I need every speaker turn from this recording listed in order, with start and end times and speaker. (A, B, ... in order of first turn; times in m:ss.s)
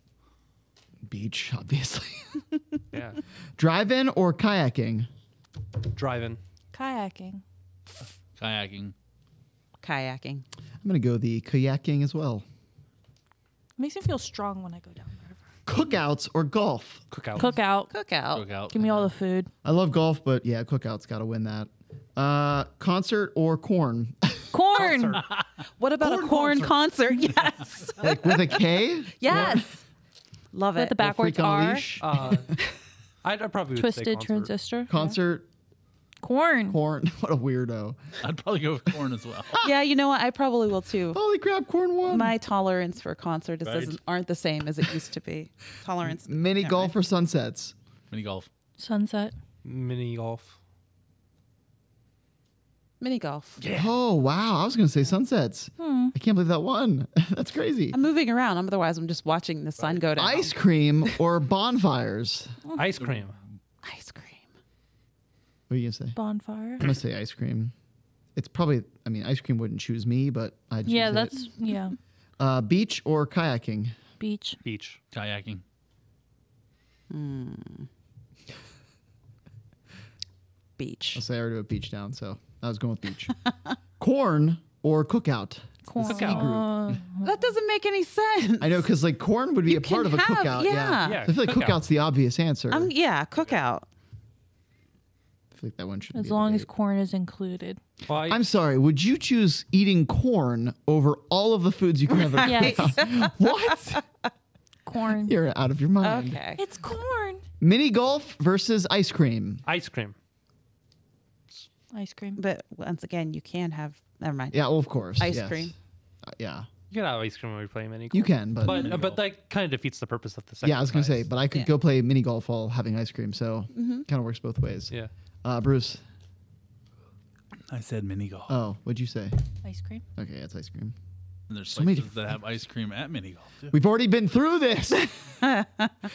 0:01.0-0:02.5 A
0:02.9-0:03.2 B
0:03.6-0:05.1 A
0:05.9-0:06.4 B
0:06.7-0:07.4 C
0:08.4-0:08.9 D
0:09.8-0:10.4 E
0:10.8-0:12.4 A
0:13.8-0:15.4 C
0:15.7-0:17.0 A
0:17.1-0:17.5 B
0:17.4-0:17.9 C
0:17.9-0:18.5 E
0:18.3-0:19.1 D
0:18.7-0:19.5 C
0:19.6-0:24.4 A
0:24.5-0:25.2 C
0:24.7-0:25.2 B
0:25.8-0:28.2 E
0:26.0-0:26.8 B
0:28.0-0:29.7 A
0:29.2-0:29.7 E
0:29.3-0:29.6 C
0:30.5-0:31.0 E
0:30.8-0:31.9 C
0:31.0-0:32.3 A
0:32.0-0:32.5 B
0:33.2-0:34.5 B
0:33.8-0:35.2 C
0:34.9-0:35.5 A
0:36.2-0:36.8 C
0:36.7-0:38.0 A
0:38.2-0:39.6 D
0:39.6-0:41.2 E
0:41.1-0:42.4 A
0:42.1-0:46.9 E
0:43.6-0:44.0 D
0:46.1-0:47.7 A
0:48.1-0:48.5 D
0:48.8-0:49.3 C
0:49.6-0:50.6 B
0:53.0-0:53.6 E
0:53.6-0:53.9 D
0:53.7-0:58.0 A
0:55.8-0:56.1 C
0:57.9-1:00.6 E
1:00.2-1:02.6 A
1:02.8-1:03.4 B
1:03.8-1:04.5 E
1:05.7-1:06.2 A
1:06.2-1:06.9 C
1:06.8-1:07.7 A
1:08.4-1:11.4 A
1:10.9-1:12.0 C
1:12.4-1:14.0 A
1:14.2-1:14.6 C
1:14.6-1:15.0 B
1:15.1-1:15.6 D
1:17.1-1:17.9 E
1:20.8-1:21.2 E
1:21.1-1:23.4 A
1:24.0-1:26.7 A
1:25.9-1:27.3 C
1:26.0-1:26.6 B
1:27.2-1:28.9 E
1:28.6-1:32.9 A
1:29.7-1:31.2 E
1:31.0-1:31.8 B
1:32.7-1:33.9 E
1:35.5-1:36.7 A
1:36.1-1:37.8 C
1:38.1-1:38.4 B
1:38.3-1:44.0 A
1:42.2-1:43.3 E
1:42.4-1:43.0 C
1:44.9-1:45.4 C
1:45.2-1:46.4 A
1:46.0-1:46.6 E
1:46.6-1:47.4 C
1:47.6-1:49.6 A
1:49.7-1:50.2 B
1:51.9-1:52.4 C
1:52.4-1:54.6 E
1:54.5-1:55.7 A
1:55.2-1:55.7 E
1:56.3-1:56.7 A
1:56.9-2:01.3 B
1:58.1-1:59.0 A
1:58.7-1:59.2 D
2:00.6-2:04.9 A
2:03.7-2:04.1 E
2:05.4-2:06.0 A
2:07.7-2:08.6 D
2:08.5-2:09.4 A
2:09.6-2:10.0 C
2:10.2-2:10.9 A
2:11.5-2:13.8 D
2:11.7-2:12.3 A
2:13.7-2:15.4 A
2:15.4-2:15.9 E